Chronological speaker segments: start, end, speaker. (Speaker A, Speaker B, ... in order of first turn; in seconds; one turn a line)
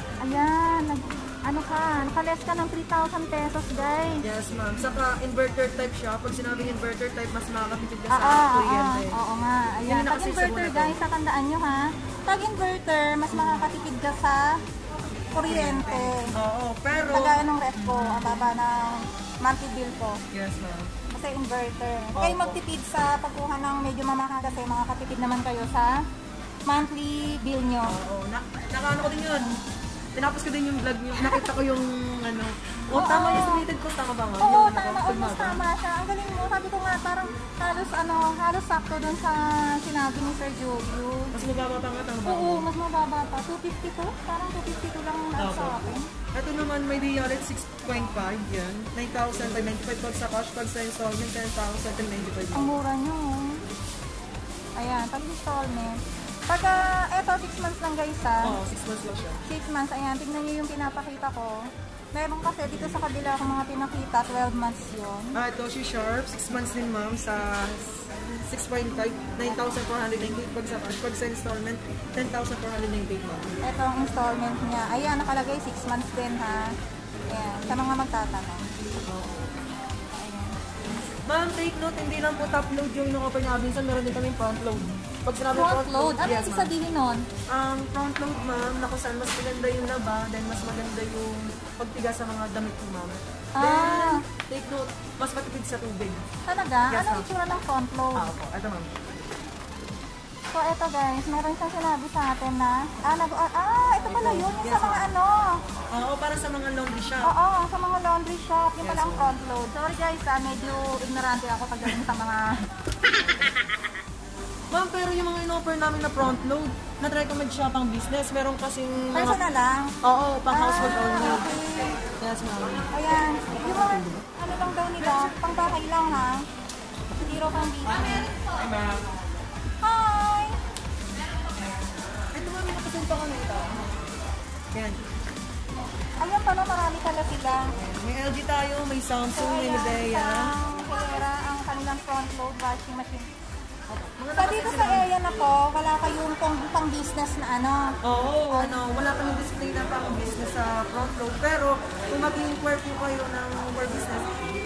Speaker A: 0.2-4.3
Speaker B: 4.2-9.2
Speaker A: 8.1-14.6
Speaker B: 9.8-11.0
Speaker A: 15.3-16.3
Speaker B: 15.3-18.5
Speaker A: 17.1-20.2
Speaker B: 20.3-20.9
Speaker A: 21.1-26.0
Speaker B: 22.1-22.6
Speaker A: 26.6-27.9
Speaker B: 27.8-29.6
Speaker B: 30.1-35.6
Speaker A: 31.2-31.4
Speaker A: 32.9-33.6
Speaker A: 34.4-41.4
Speaker B: 41.3-42.7
Speaker A: 42.2-46.1
Speaker B: 45.4-52.8
Speaker A: 52.5-53.6
Speaker A: 54.8-58.6
Speaker B: 58.4-59.4
Speaker A: 59.4-65.4
Speaker B: 65.3-73.6
Speaker A: 73.6-76.7
Speaker A: 77.3-78.7
Speaker B: 77.7-77.9
Speaker B: 79.0-79.5
Speaker A: 80.1-80.5
Speaker B: 81.2-86.7
Speaker A: 85.5-87.2
Speaker B: 87.5-96.2
Speaker A: 93.5-94.2
Speaker A: 96.5-98.3
Speaker B: 96.9-97.3
Speaker B: 98.1-98.9
Speaker A: 100.5-105.6
Speaker B: 104.1-105.1
Speaker B: 105.9-107.3
Speaker A: 107.2-112.5
Speaker B: 108.8-109.3
Speaker B: 114.7-119.4
Speaker A: 119.1-122.0
Speaker B: 120.0-124.2
Speaker A: 122.9-126.5
Speaker B: 125.0-125.4
Speaker A: 127.2-128.3
Speaker B: 128.0-129.1
Speaker A: 129.8-130.6
Speaker B: 132.3-134.0
Speaker B: 134.7-135.0
Speaker A: 136.2-137.7
Speaker B: 137.8-140.5
Speaker A: 139.3-143.3
Speaker B: 143.9-145.1
Speaker A: 144.3-147.9
Speaker B: 148.0-154.3
Speaker A: 148.5-148.8